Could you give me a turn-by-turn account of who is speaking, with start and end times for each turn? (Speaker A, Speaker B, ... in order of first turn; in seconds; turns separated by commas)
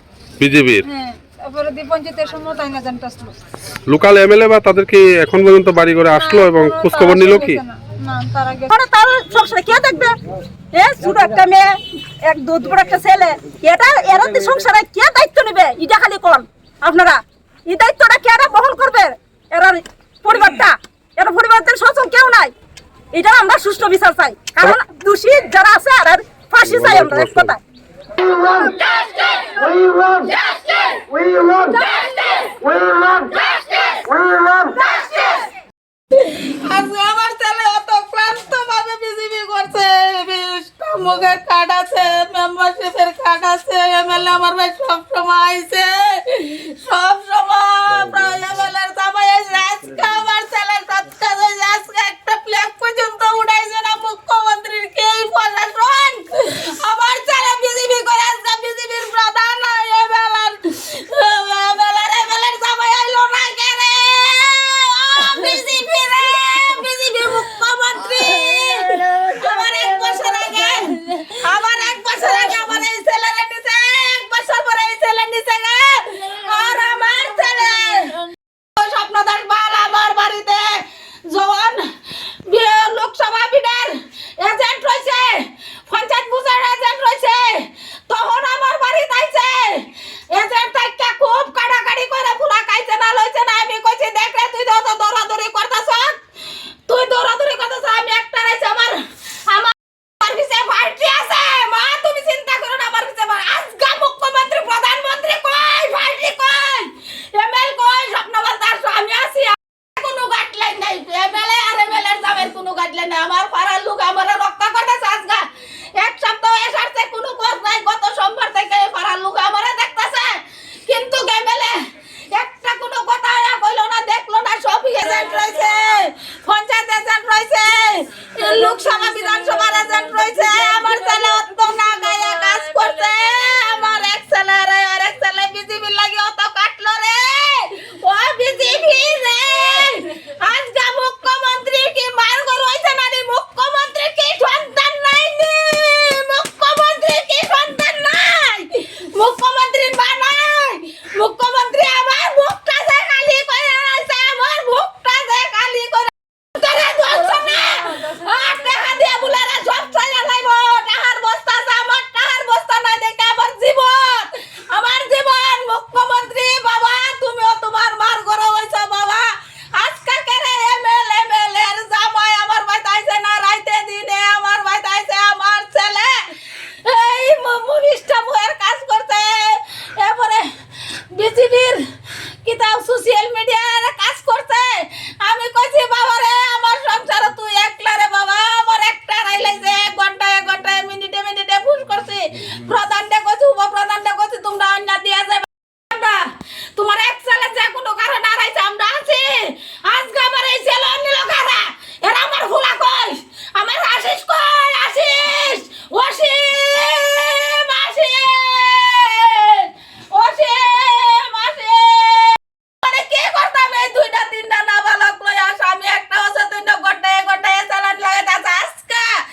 Speaker A: 0.4-0.8, Speaker B: 0.8-3.3, Speaker A: 3.9-7.6, Speaker B: 6.2-8.7, Speaker C: 8.7-10.2, Speaker C: 10.7-22.5, Speaker C: 23.1-27.6, Speaker A: 26.6-27.6, Speaker D: 28.2-28.7, Speaker E: 28.5-31.0, Speaker D: 29.6-30.3, Speaker D: 31.1-31.8, Speaker E: 31.7-32.6, Speaker D: 32.6-33.4, Speaker E: 33.3-34.0, Speaker D: 34.0-34.7, Speaker E: 34.7-35.5, Speaker E: 36.1-78.2, Speaker E: 78.8-81.9, Speaker E: 82.5-96.2, Speaker E: 96.9-115.4, Speaker E: 116.0-121.8, Speaker E: 122.3-176.1, Speaker E: 176.8-180.5, Speaker E: 181.1-181.8, Speaker E: 182.4-196.2, Speaker E: 196.8-219.1